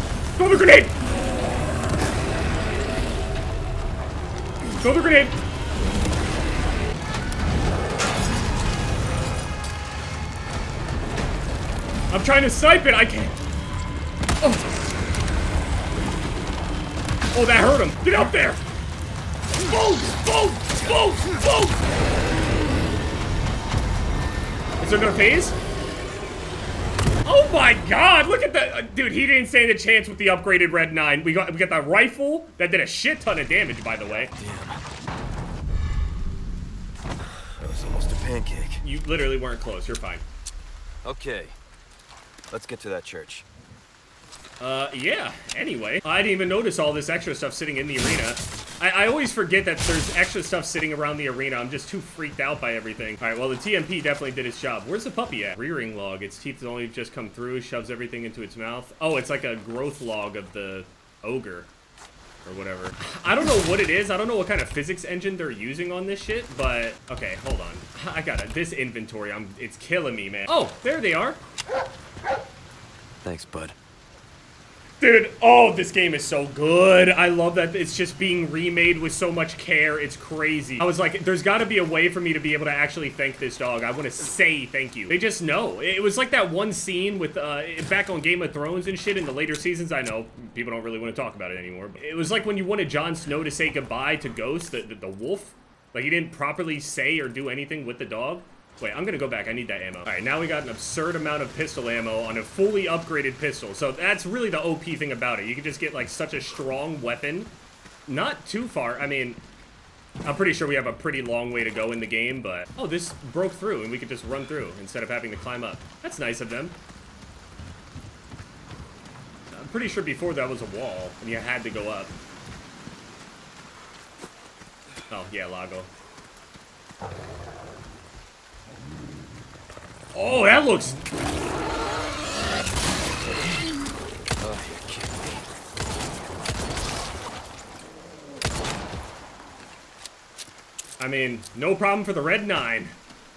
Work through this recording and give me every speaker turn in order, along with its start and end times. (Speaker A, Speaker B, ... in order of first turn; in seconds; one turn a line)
Speaker A: 0.4-1.0
Speaker A: 4.8-5.4
Speaker A: 12.1-13.4
Speaker A: 14.4-14.7
Speaker A: 17.3-18.6
Speaker A: 19.6-21.8
Speaker A: 24.8-25.6
Speaker A: 27.2-34.3
Speaker B: 34.4-34.8
Speaker B: 37.5-38.8
Speaker A: 38.8-40.2
Speaker B: 41.0-41.6
Speaker B: 42.5-43.5
Speaker A: 44.6-61.7
Speaker A: 62.5-71.4
Speaker B: 73.2-73.8
Speaker A: 75.0-107.5
Speaker A: 108.1-109.4
Speaker A: 110.2-116.8
Speaker A: 119.5-122.1
Speaker A: 125.1-125.9
Speaker A: 130.1-131.0
Speaker B: 134.4-135.5
Speaker A: 141.0-142.9